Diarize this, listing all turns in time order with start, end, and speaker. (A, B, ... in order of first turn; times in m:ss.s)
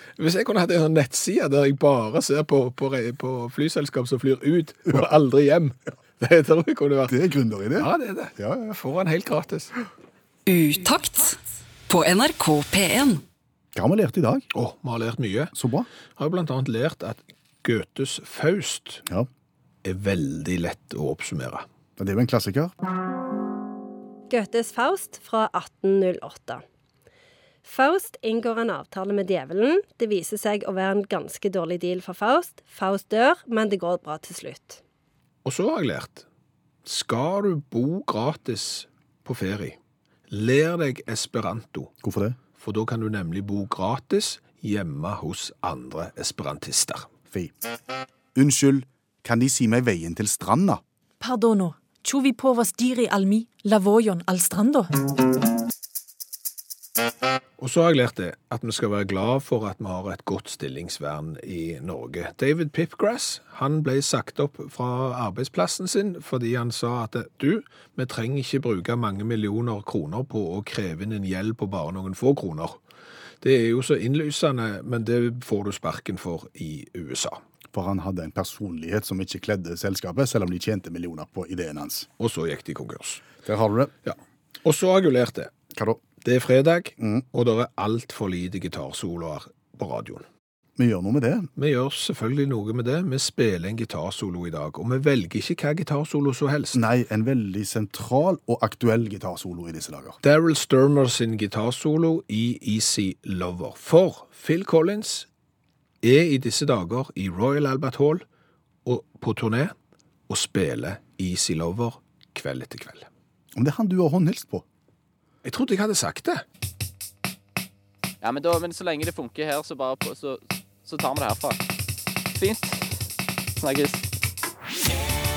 0:00.2-0:07.2 A
0:07.1-0:08.7 B
0:07.7-0:09.8 A
0:10.4-0:13.2 C
0:13.7-0:14.5 B
0:14.5-0:15.5 A
0:15.5-0:15.9 B
0:16.2-0:19.0 A
0:19.8-0:21.6 A
0:22.0-0:22.7 B
0:24.3-0:26.6 D
0:27.6-0:34.8 D
0:35.4-0:36.2 A
0:36.8-0:39.8 A
0:40.3-0:41.9 A
0:42.0-0:42.4 B
0:42.6-0:47.1 A
0:48.3-0:50.8 B
0:51.2-0:54.9 E
0:57.6-1:12.8 A
1:13.4-1:17.4 A
1:17.7-1:22.1 B
1:22.2-1:23.2 A
1:23.4-1:23.9 B
1:24.0-1:25.5 A
1:25.7-1:26.0 B
1:26.2-1:30.2 A
1:27.0-1:27.2 B
1:30.8-1:31.5 B
1:31.6-1:36.8 A
1:36.7-1:40.2 B
1:40.2-1:45.3 A
1:46.0-1:48.2 A
1:48.8-1:49.7 A
1:50.3-1:53.1 A
1:53.5-1:54.6 B
1:55.4-1:56.4 A
1:58.2-2:01.6 F
2:02.3-2:02.9 F
2:03.6-2:04.0 F